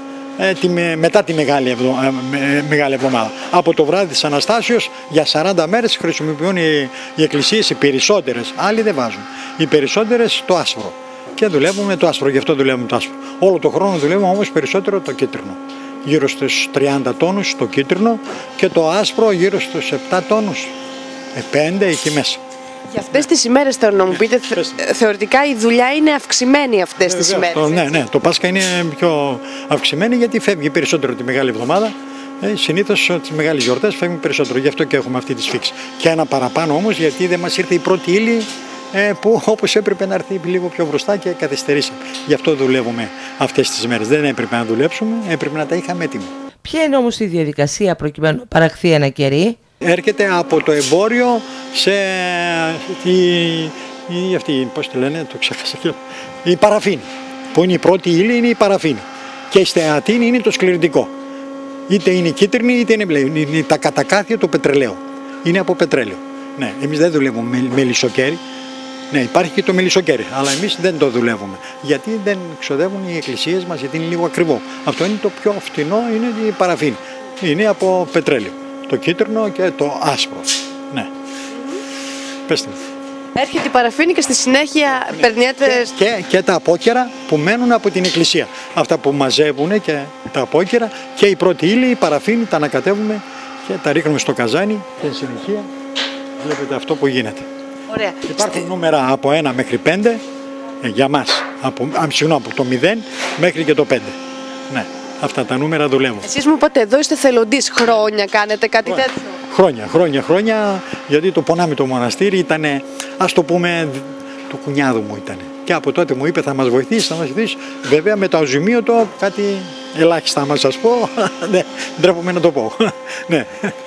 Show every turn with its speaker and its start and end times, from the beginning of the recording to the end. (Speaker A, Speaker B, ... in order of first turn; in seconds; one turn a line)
Speaker A: 0.4-20.7
Speaker A: 21.3-22.4
Speaker B: 22.9-28.0
Speaker A: 24.5-24.9
Speaker A: 27.0-46.3
Speaker C: 46.6-49.6
Speaker A: 49.8-61.1
Speaker A: 61.9-68.4
Speaker A: 69.1-81.1
Speaker A: 82.5-82.8
Speaker B: 83.3-85.9
Speaker A: 85.1-95.7
Speaker A: 96.4-97.5
Speaker B: 97.9-98.2
Speaker A: 98.2-100.2
Speaker A: 100.8-104.1
Speaker A: 104.7-106.3
Speaker B: 106.2-109.3
Speaker A: 108.9-123.8